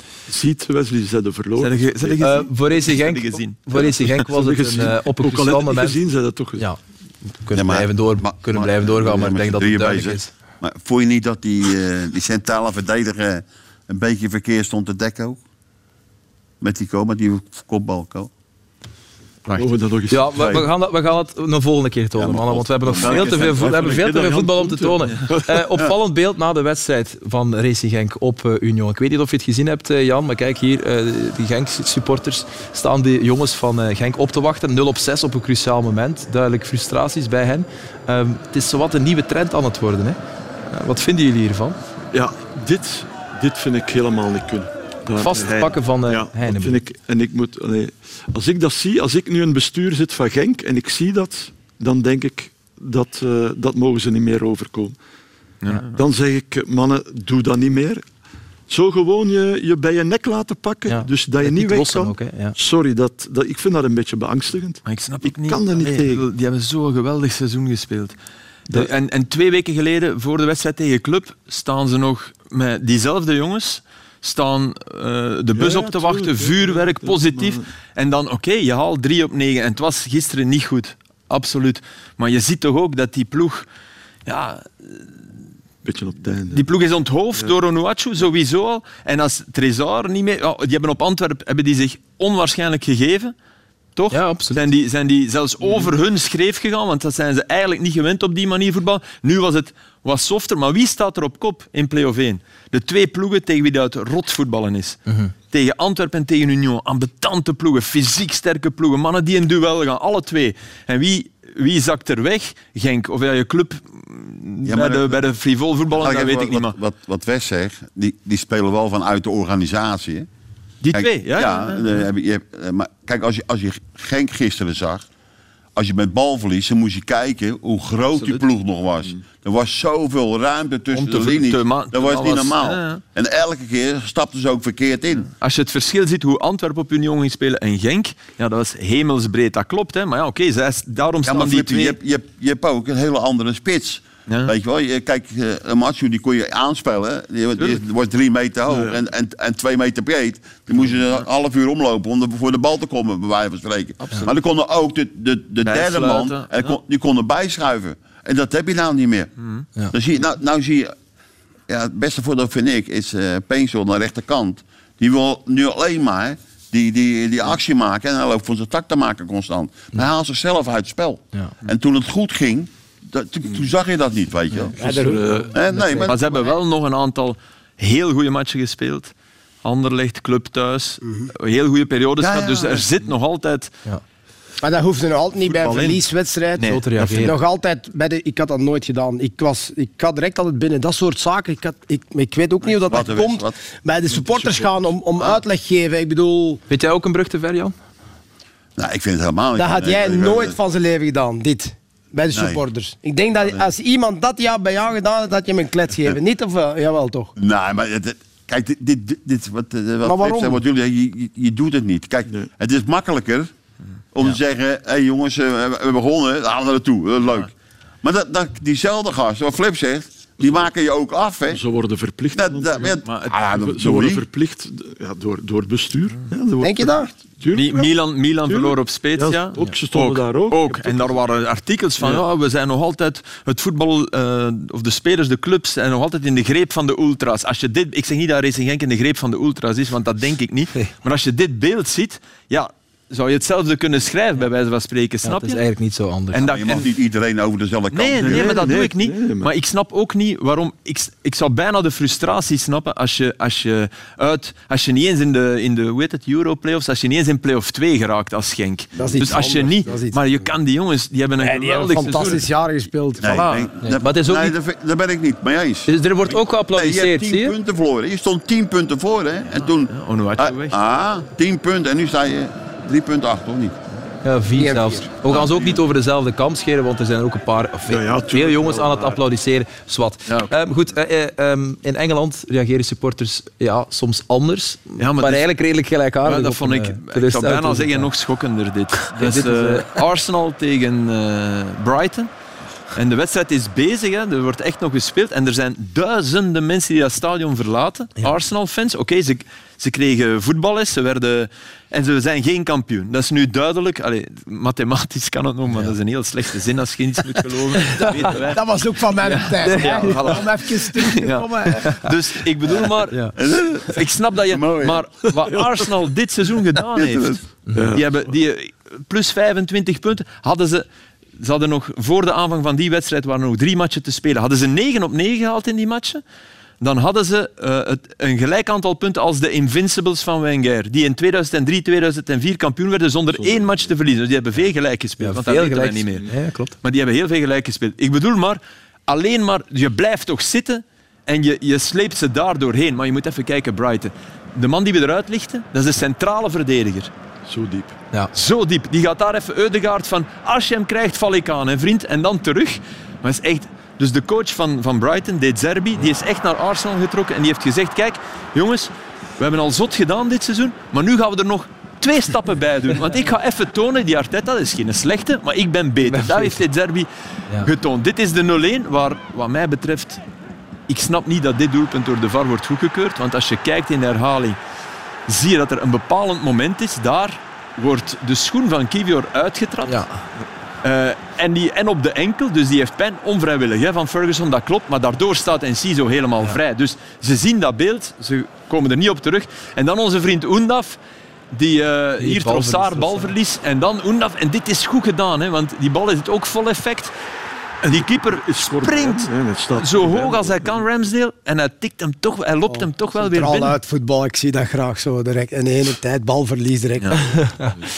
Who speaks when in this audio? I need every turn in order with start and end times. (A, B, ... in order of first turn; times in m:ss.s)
0:00.3-0:02.3 A
0:01.6-0:04.1 B
0:02.2-0:06.0 C
0:04.2-0:06.7 A
0:07.3-0:10.3 C
0:07.5-0:15.4 D
0:16.6-0:18.3 D
0:19.5-0:20.7 A
0:20.1-0:40.2 C
0:20.4-0:20.6 D
0:22.2-0:23.5 D
0:22.9-0:25.6 A
0:40.7-0:41.8 C
0:42.1-0:55.0 A
0:45.2-0:46.8 C
0:55.6-0:56.0 B
0:55.8-0:58.0 A
0:58.7-1:06.2 A
1:00.9-1:02.6 C
1:04.8-1:08.2 B
1:08.7-1:23.6 B
1:15.6-1:17.6 A
1:24.2-1:25.0 B
1:25.8-1:26.7 A
1:26.5-1:33.3 B
1:33.9-1:45.0 B
1:34.1-1:34.6 C
1:45.1-1:45.3 C
1:45.5-1:56.7 B
1:54.6-1:55.2 D
1:55.9-2:00.3 D
2:00.8-2:02.0 B
2:00.9-2:05.1 D
2:05.8-2:15.3 D
2:10.9-2:13.0 B
2:15.3-2:22.0 B
2:21.2-2:39.3 D
2:24.3-2:24.5 B
2:34.0-2:34.3 B
2:35.6-2:36.8 B
2:39.9-2:40.9 D
2:41.7-2:54.7 D
2:54.8-2:56.5 E
2:54.8-2:55.5 A
2:55.5-2:56.2 D
2:56.0-2:59.1 B
2:59.6-3:03.7 B
3:01.0-3:01.3 E
3:02.2-3:02.8 D
3:04.6-3:16.6 E
3:05.4-3:06.0 B
3:06.6-3:07.3 B
3:06.6-3:07.3 C
3:12.8-3:13.6 D
3:14.2-3:14.7 A
3:16.7-3:17.7 C
3:18.8-3:20.6 D
3:19.5-3:27.3 E
3:22.3-3:22.6 D
3:27.4-3:33.5 D
3:30.0-3:30.6 E
3:34.1-3:37.5 D
3:38.0-3:41.6 D
3:41.5-3:43.0 A
3:42.3-3:44.2 D
3:43.0-3:43.3 B
3:43.5-3:47.9 A
3:46.6-3:47.1 E
3:47.5-4:05.6 B
3:48.4-3:51.2 A
3:52.0-3:52.2 A
4:05.2-4:06.4 C
4:06.3-4:06.8 B
4:06.4-4:08.7 D
4:07.9-4:22.4 B
4:08.2-4:09.5 A
4:19.0-4:20.5 E
4:21.4-4:23.4 E
4:23.2-4:25.9 D
4:23.2-4:23.7 B
4:23.8-4:24.6 C
4:25.9-4:27.5 C
4:26.7-4:33.8 D
4:29.5-4:30.8 B
4:34.2-4:48.1 C
4:34.6-4:35.0 E
4:37.9-4:39.2 A
4:45.0-4:45.4 B
4:46.2-4:52.3 B
4:49.1-4:50.0 C
4:52.9-5:08.6 B
5:08.5-5:12.0 E
5:09.2-5:13.2 B
5:09.6-5:10.3 C
5:13.4-5:15.0 D
5:13.9-5:17.4 B
5:16.9-5:17.4 D
5:17.7-5:18.2 A
5:17.9-5:20.8 B
5:21.4-5:26.2 B
5:26.8-5:36.3 B
5:33.3-5:33.9 A
5:35.2-5:36.8 C
5:36.8-5:47.1 B
5:47.4-5:48.0 A
5:48.3-6:07.1 B
6:06.0-6:06.6 C
6:07.6-6:10.2 B
6:10.9-6:14.6 B
6:15.3-6:20.0 B
6:19.8-6:20.2 C
6:20.8-6:31.0 B
6:31.5-6:37.1 B
6:32.2-6:33.3 C
6:37.8-6:43.8 B
6:37.9-6:40.8 A
6:42.7-6:47.4 E
6:47.2-6:47.7 C